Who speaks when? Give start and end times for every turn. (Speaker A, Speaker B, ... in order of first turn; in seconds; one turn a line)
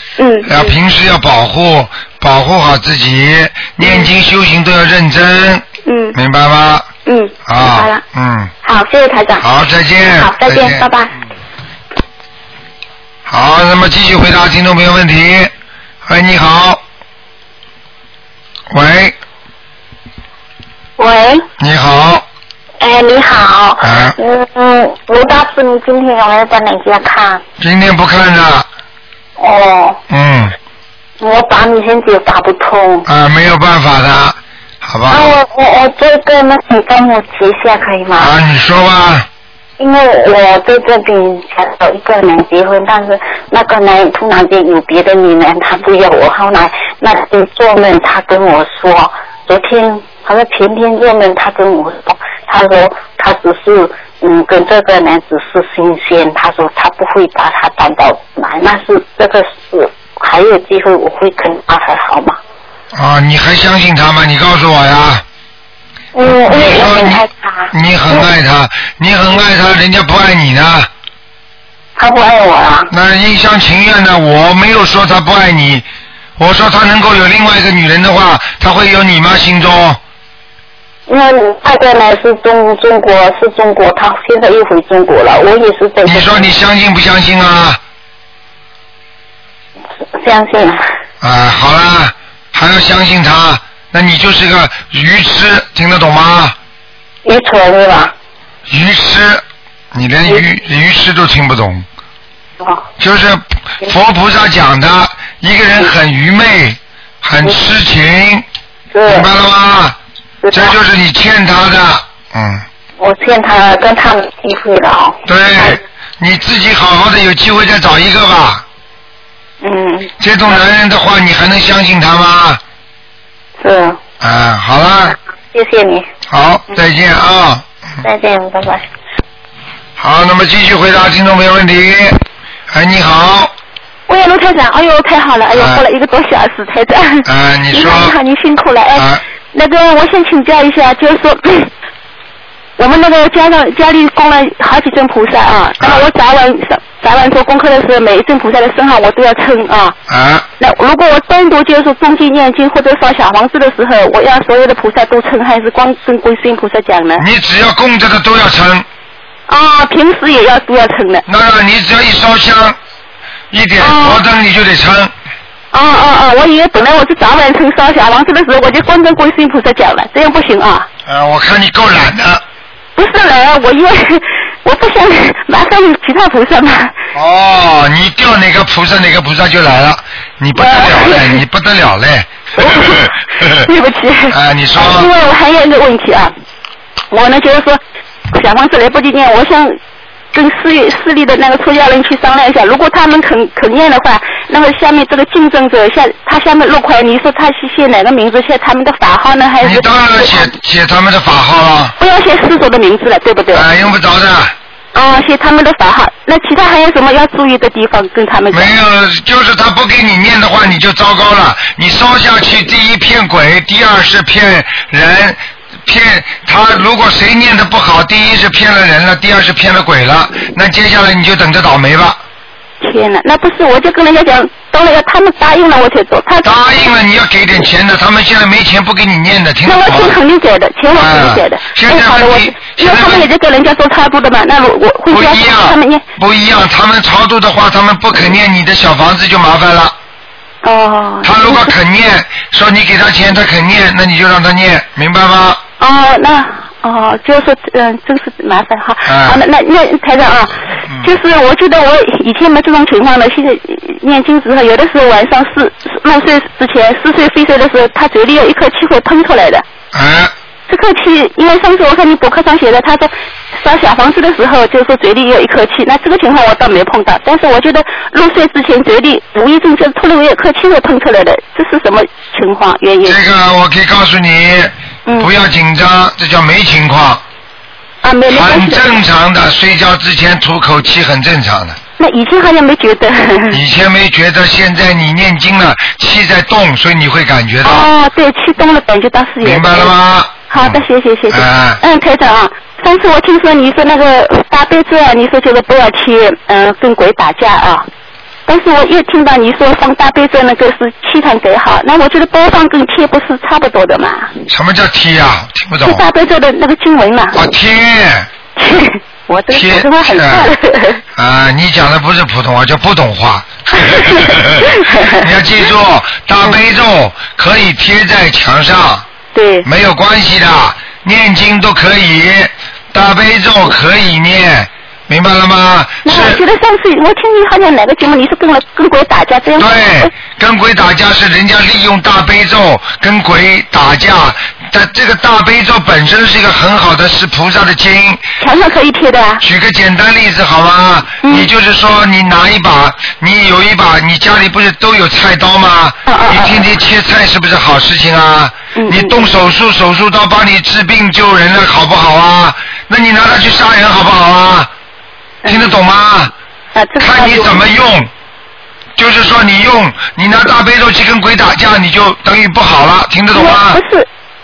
Speaker A: 0.2-0.8
Speaker B: 0.5-6.9
Speaker A: 3.8-4.1
Speaker A: 5.8-6.2
Speaker A: 7.0-8.0
Speaker B: 7.5-8.5
Speaker A: 8.6-9.5
Speaker B: 9.4-10.9
Speaker A: 10.1-11.1
Speaker B: 13.3-15.5
Speaker B: 16.1-16.8
Speaker B: 18.7-19.1
Speaker C: 21.0-21.5
Speaker B: 21.6-22.2
Speaker C: 22.8-27.4
Speaker B: 23.8-24.1
Speaker B: 27.6-28.7
Speaker C: 29.4-30.0
Speaker B: 30.1-30.5
Speaker C: 31.2-33.1
Speaker B: 33.1-35.4
Speaker C: 35.1-38.3
Speaker B: 38.2-39.3
Speaker C: 39.8-62.4
Speaker B: 62.9-65.2
Speaker C: 66.1-68.2
Speaker B: 66.4-70.9
Speaker C: 72.0-72.9
Speaker B: 72.9-75.9
Speaker B: 76.4-80.0
Speaker C: 81.1-86.5
Speaker B: 86.0-87.8
Speaker C: 90.1-90.8
Speaker B: 91.2-96.5
Speaker C: 97.2-98.1
Speaker B: 98.7-101.9
Speaker C: 102.6-102.8
Speaker B: 103.0-108.5
Speaker C: 108.9-109.3
Speaker B: 109.1-110.0
Speaker C: 110.4-110.7
Speaker B: 110.5-112.6
Speaker C: 113.0-115.8
Speaker B: 115.3-118.6
Speaker C: 119.6-120.1
Speaker B: 120.2-122.6
Speaker C: 123.6-124.0
Speaker B: 124.2-125.2
Speaker C: 125.5-126.1
Speaker B: 126.3-127.7
Speaker C: 128.0-128.9
Speaker B: 130.0-133.5
Speaker D: 134.1-141.7
Speaker B: 135.5-135.8
Speaker B: 137.2-138.2
Speaker B: 139.0-139.2
Speaker D: 142.8-150.0
Speaker B: 145.8-146.1
Speaker B: 150.1-150.5
Speaker D: 150.6-157.2
Speaker B: 157.2-158.9
Speaker D: 159.5-161.2
Speaker B: 161.3-162.8
Speaker B: 163.5-165.1
Speaker D: 163.8-164.2
Speaker D: 165.7-170.9
Speaker B: 171.1-172.4
Speaker D: 173.0-177.0
Speaker B: 177.1-183.5
Speaker D: 180.6-181.4
Speaker D: 182.6-186.3
Speaker B: 184.3-185.1
Speaker D: 187.1-189.8
Speaker D: 190.3-200.5
Speaker B: 199.6-202.0
Speaker D: 202.0-203.7
Speaker B: 203.5-204.6
Speaker D: 204.9-208.7
Speaker B: 208.5-222.2
Speaker D: 222.8-226.8
Speaker B: 226.4-230.2
Speaker D: 229.6-236.1
Speaker B: 230.9-233.3
Speaker B: 235.1-239.9
Speaker D: 240.6-241.7
Speaker B: 241.2-245.6
Speaker D: 245.8-259.6
Speaker B: 249.1-249.4
Speaker B: 259.9-260.3
Speaker D: 260.7-273.2
Speaker B: 273.1-277.2
Speaker D: 275.1-275.3
Speaker D: 278.0-278.9
Speaker B: 278.3-281.8
Speaker D: 282.0-283.6
Speaker B: 283.5-287.9
Speaker D: 287.6-289.9
Speaker B: 289.4-291.8
Speaker D: 290.5-297.9
Speaker D: 298.5-304.3
Speaker B: 304.5-306.0
Speaker D: 305.8-307.5
Speaker B: 307.3-308.3
Speaker D: 308.6-311.0
Speaker B: 309.5-310.5
Speaker B: 311.2-319.1
Speaker D: 313.9-315.3
Speaker D: 319.3-319.7
Speaker B: 319.6-326.4
Speaker D: 326.0-330.1
Speaker B: 329.6-338.2
Speaker D: 338.4-339.4
Speaker B: 339.4-354.7
Speaker D: 341.2-341.5
Speaker D: 346.1-346.7
Speaker D: 348.7-349.3
Speaker D: 355.4-355.7
Speaker B: 355.4-356.3
Speaker D: 356.7-357.6
Speaker B: 357.0-358.1
Speaker B: 359.0-363.8
Speaker D: 363.3-364.1